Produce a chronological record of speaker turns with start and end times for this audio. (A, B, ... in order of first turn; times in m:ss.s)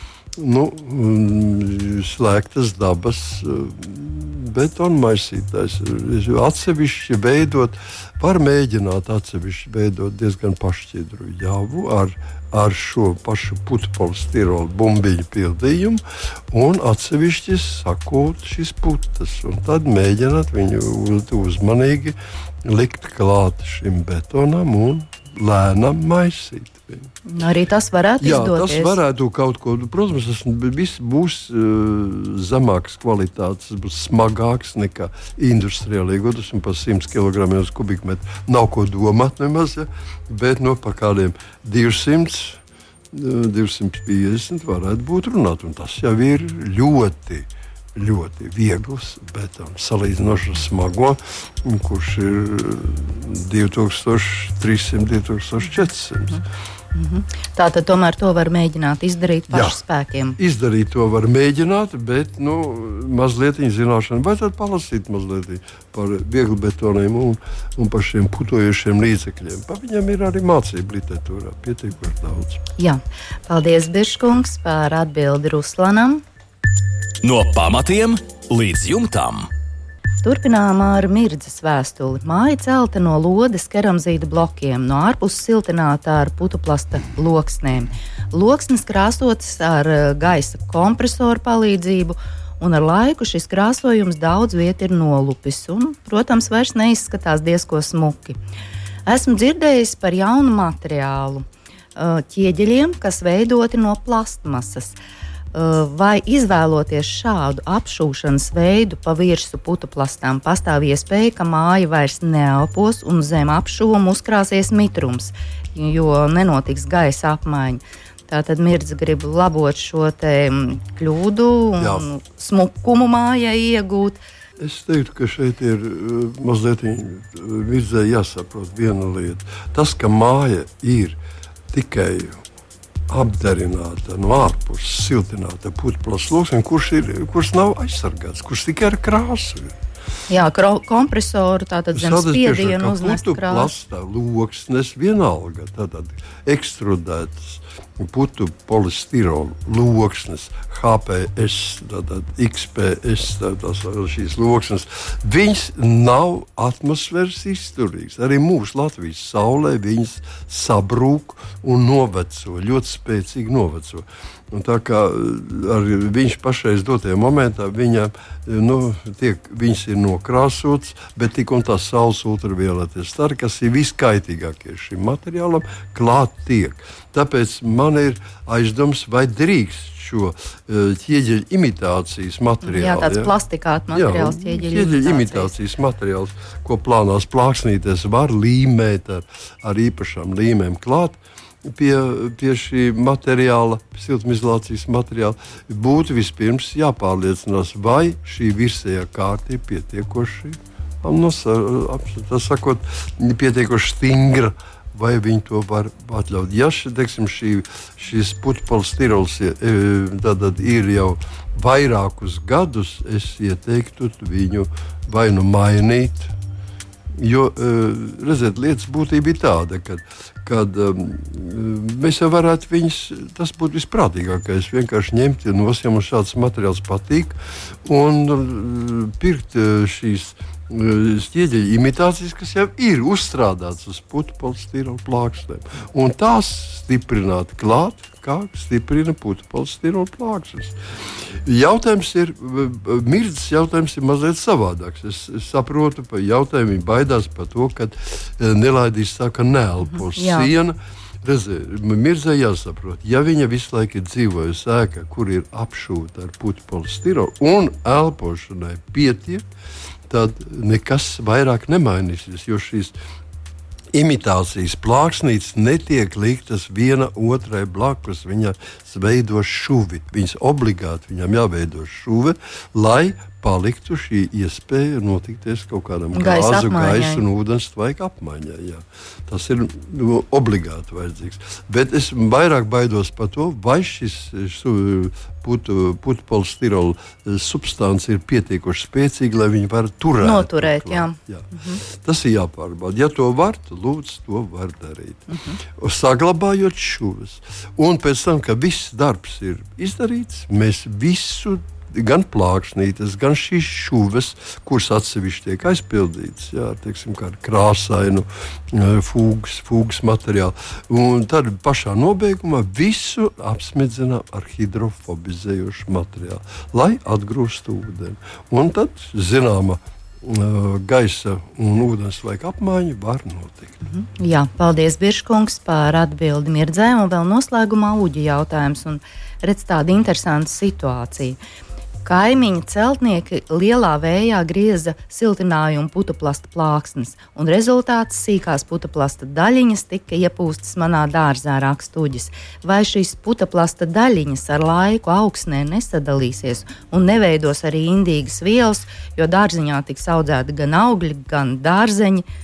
0:00.4-0:27.1 A
0:27.2-0:29.0 B
0:28.2-0:42.6 A
0:43.1-0:56.4 A
0:56.9-1:00.4 B
0:59.5-0:59.8 A
1:00.4-1:12.6 A
1:12.8-1:16.2 B
1:17.2-1:19.5 C
1:20.2-1:38.4 B
1:39.1-1:45.0 B
1:45.5-2:04.2 B
2:01.8-2:02.1 A
2:04.6-2:11.2 A
2:11.7-2:12.4 A
2:13.1-2:19.8 A
2:20.3-2:23.7 B
2:21.9-3:03.3 A
3:02.6-3:05.5 B
3:03.9-3:36.3 A
3:37.1-4:19.4 A
4:10.0-4:10.5 B
4:20.1-4:22.9 A
4:23.9-5:23.8 A
4:36.1-4:37.2 B
4:50.2-4:51.8 B
4:55.3-4:55.6 B
5:23.9-5:31.4 B
5:32.0-5:52.2 B